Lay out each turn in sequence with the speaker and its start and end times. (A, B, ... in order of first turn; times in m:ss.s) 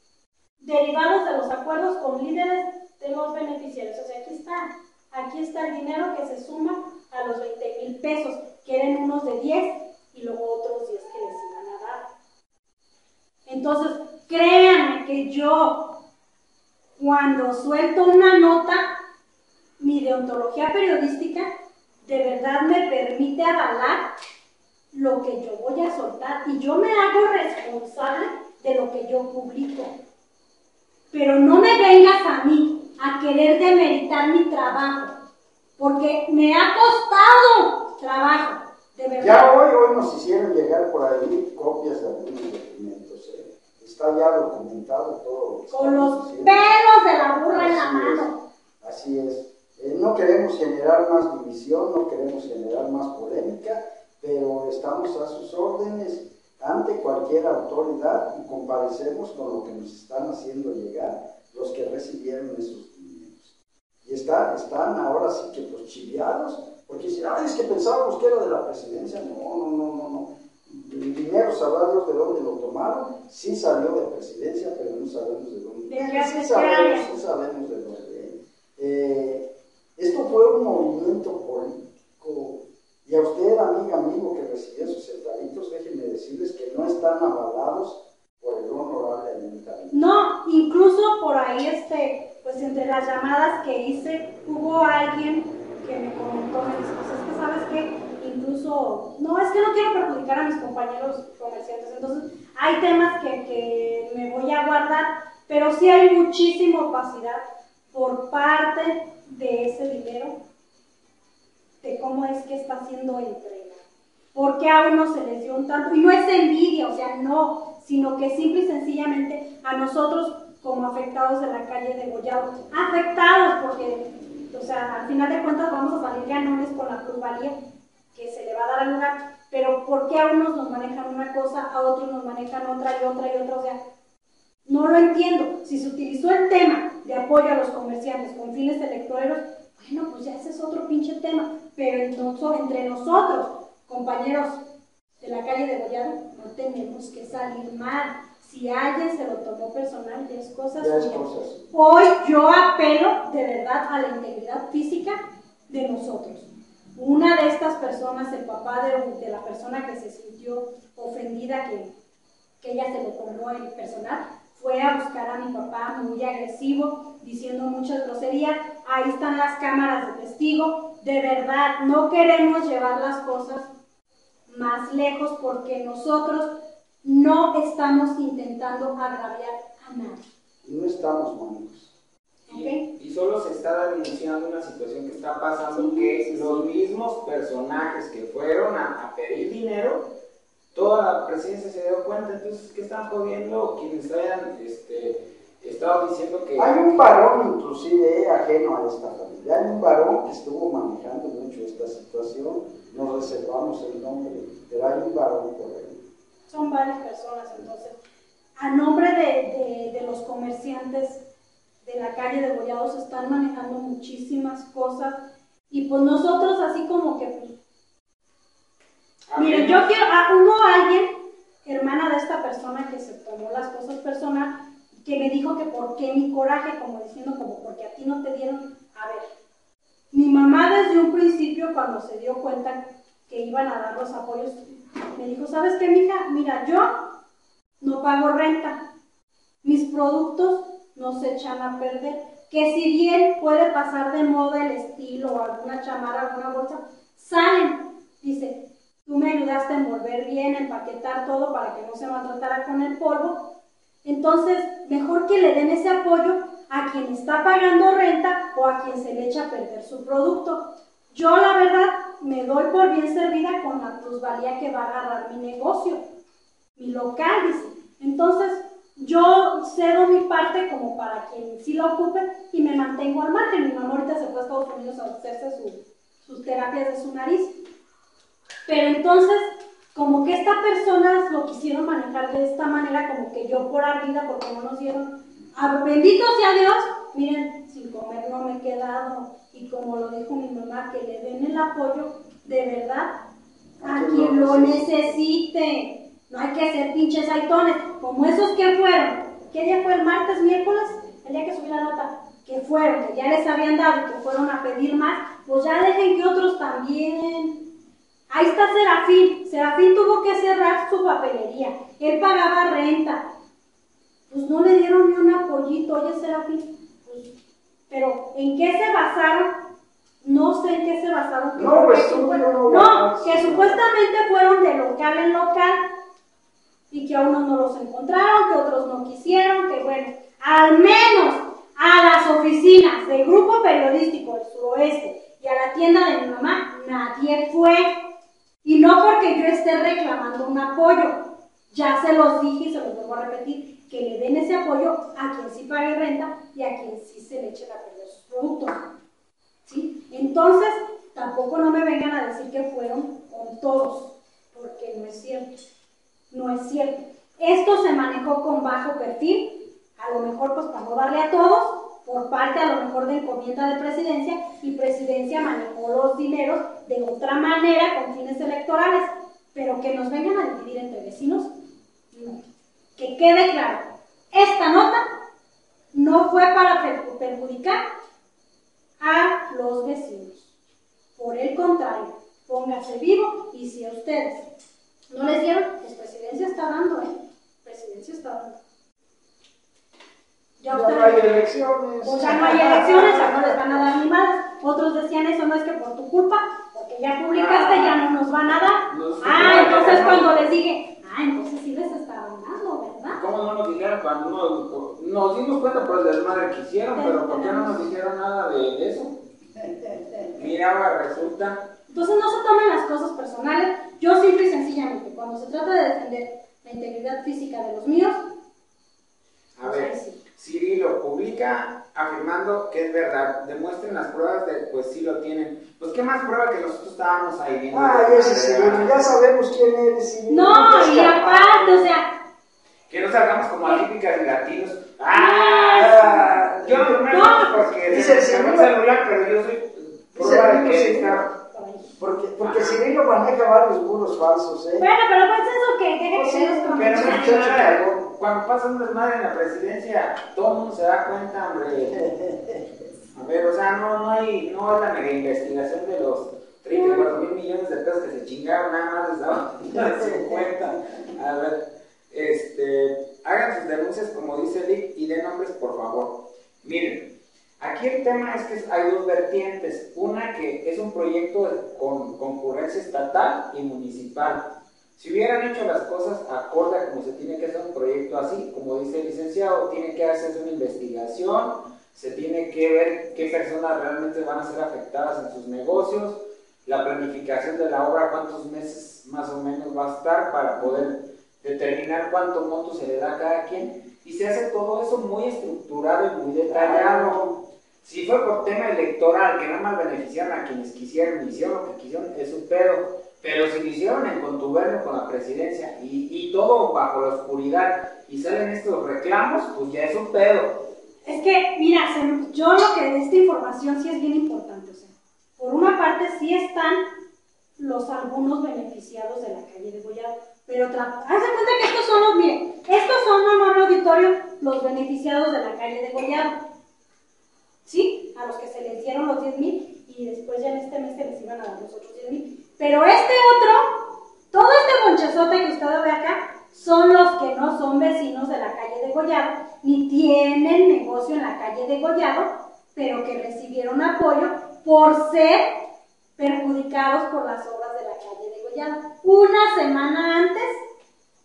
0:00.6-0:12.1 A
0:13.5-0:16.0 A
0:17.0-0:18.9 A
0:19.8-0:21.5 A
0:22.0-0:24.0 A
0:24.9-0:29.9 A
0:31.1-0:35.1 A
0:35.8-0:39.5 A
0:39.2-0:46.7 B
0:45.7-0:48.4 A
0:47.5-0:48.3 B
0:48.8-1:03.5 B
1:04.0-1:19.5 B
1:15.9-1:17.1 A
1:20.0-1:30.0 B
1:29.9-1:50.4 A
1:51.8-1:53.8 A
1:54.3-2:07.5 A
2:08.1-2:13.8 A
2:14.7-2:24.6 A
2:25.2-2:35.2 A
2:30.8-2:31.7 B
2:35.7-2:41.9 A
2:42.6-2:53.7 A
2:54.5-3:00.2 A
3:00.6-3:01.9 B
3:02.5-3:02.8 A
3:02.5-3:10.1 C
3:05.7-3:06.7 A
3:10.7-3:16.7 C
3:16.6-3:26.1 B
3:26.5-3:28.0 A
3:28.6-3:31.2 A
3:31.8-3:37.5 A
3:39.3-3:39.9 C
3:39.4-3:41.1 A
3:41.6-3:49.3 A
3:50.1-3:56.9 A
3:57.8-3:58.8 A
3:59.6-4:13.5 A
4:14.0-4:26.0 A
4:26.8-4:37.5 A
4:38.7-4:53.1 A
4:53.8-4:55.0 B
4:53.8-5:07.6 A
5:08.3-5:13.2 A
5:14.3-5:17.3 A
5:17.9-5:19.6 A
5:20.2-5:25.8 A
5:21.6-5:23.8 B
5:26.9-5:37.9 A
5:38.6-5:48.8 A
5:49.7-5:55.5 A
5:56.3-6:11.5 A
6:12.1-6:12.4 A
6:13.0-6:15.0 A
6:15.9-6:17.8 A
6:19.0-6:20.5 A
6:21.2-6:24.5 A
6:25.1-6:27.1 A
6:27.6-6:28.6 A
6:30.6-6:31.4 A
6:30.7-6:33.8 B
6:32.0-6:43.2 A
6:37.3-6:38.0 C
6:38.9-6:40.3 C
6:39.3-6:40.2 B
6:43.1-6:49.2 C
6:47.0-6:47.9 A
6:49.7-6:50.3 B
6:50.3-6:51.6 C
6:51.9-6:58.2 A
6:59.6-7:09.2 C
6:59.7-7:00.2 A
7:07.7-7:11.8 B
7:10.3-7:12.1 A
7:12.9-7:21.3 C
7:15.1-7:15.9 A
7:15.8-7:17.0 B
7:17.1-7:17.7 A
7:17.9-7:18.7 B
7:20.2-7:21.2 B
7:21.4-7:21.9 A
7:22.0-7:24.9 B
7:22.4-7:22.8 C
7:24.8-7:27.6 A
7:26.1-7:28.0 B
7:26.8-7:32.0 C
7:31.9-7:32.8 B
7:33.1-7:47.1 C
7:36.7-7:37.0 A
7:39.7-7:40.8 B
7:47.6-8:17.2 C
8:16.4-8:17.4 B
8:17.8-8:30.6 C
8:31.0-8:36.9 A
8:37.6-8:46.4 A
8:47.7-9:05.6 A
9:06.2-9:10.6 A